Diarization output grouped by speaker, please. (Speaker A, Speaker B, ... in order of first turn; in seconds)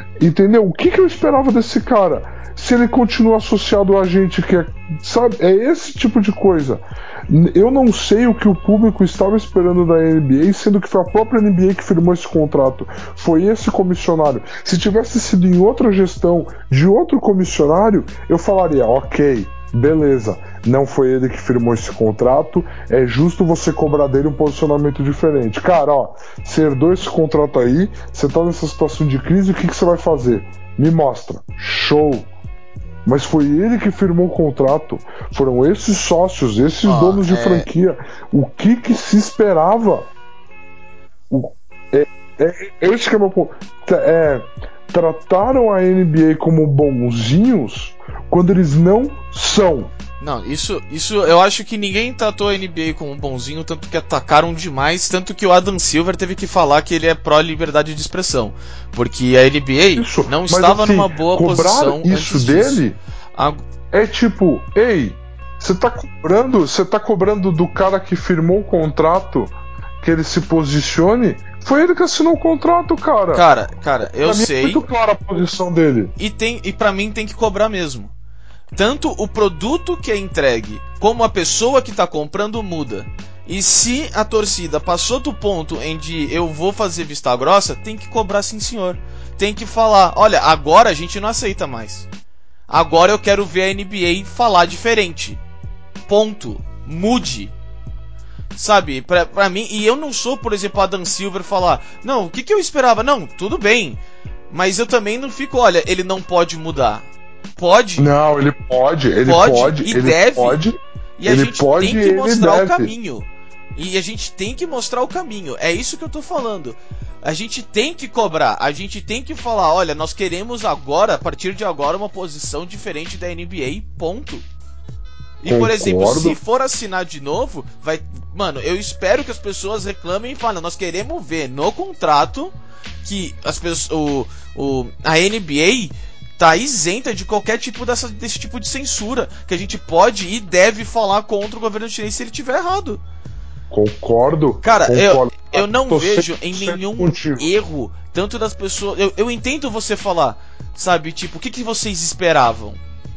Speaker A: 0.2-32.3, 33.0-40.1, 41.3-49.9, 59.9-63.0, 63.9-73.5, 74.1-76.1, 108.0-112.9, 125.5-126.4, 143.7-147.5
Speaker B: 36.8-37.7, 50.2-62.8, 63.3-63.6, 73.3-74.8, 76.2-78.1, 78.7-92.1, 92.7-95.4, 96.1-97.5, 98.5-107.0, 107.6-108.0, 109.2-110.6, 111.2-124.4, 125.4-132.5, 133.0-143.0, 144.6-152.8